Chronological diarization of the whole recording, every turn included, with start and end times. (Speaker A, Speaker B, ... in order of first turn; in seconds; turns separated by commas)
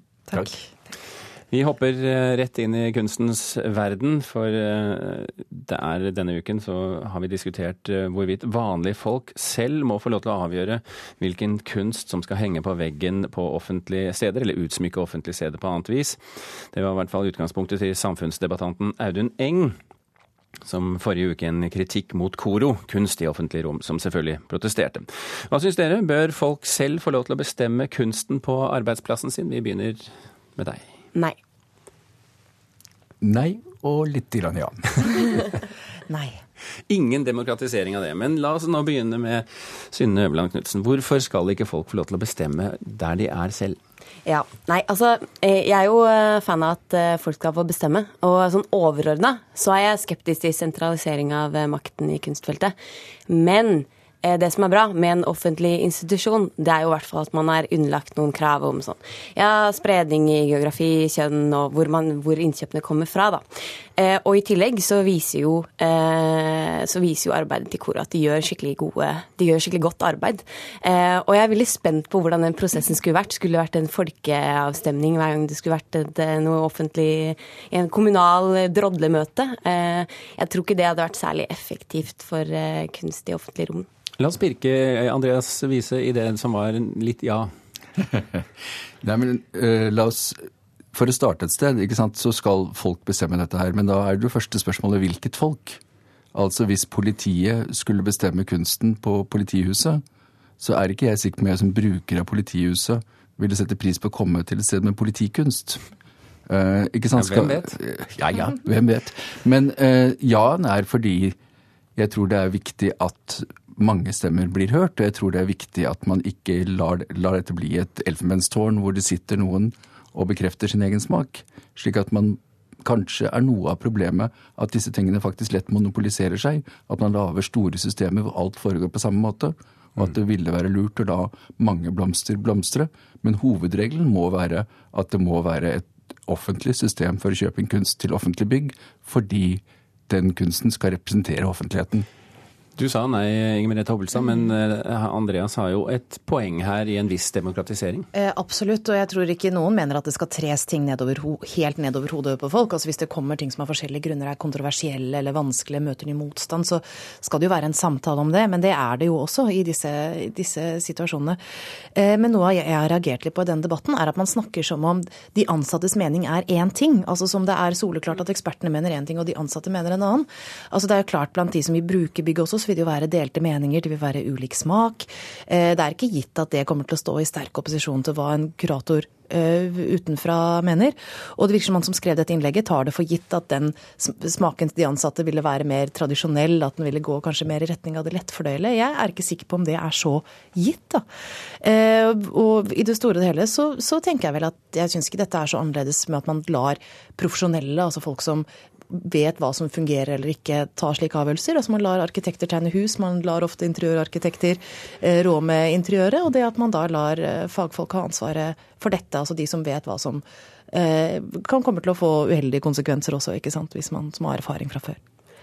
Speaker A: 1.5-16.2, Speaker A: 16.7-19.8, Speaker A: 20.6-30.9, Speaker B: 33.2-35.2, Speaker C: 36.1-36.4, Speaker A: 36.9-43.8, Speaker D: 44.2-52.7, Speaker D: 53.3-63.4, Speaker D: 64.0-83.9, Speaker A: 84.2-87.5, Speaker B: 88.1-88.4, Speaker B: 89.0-95.8, Speaker B: 96.3-100.0, Speaker B: 100.6-105.8, Speaker B: 106.5-111.3, Speaker A: 107.2-107.8, Speaker B: 112.0-142.1, Speaker A: 142.8-148.1, Speaker C: 148.1-161.4, Speaker C: 161.9-191.0, Speaker C: 191.6-215.0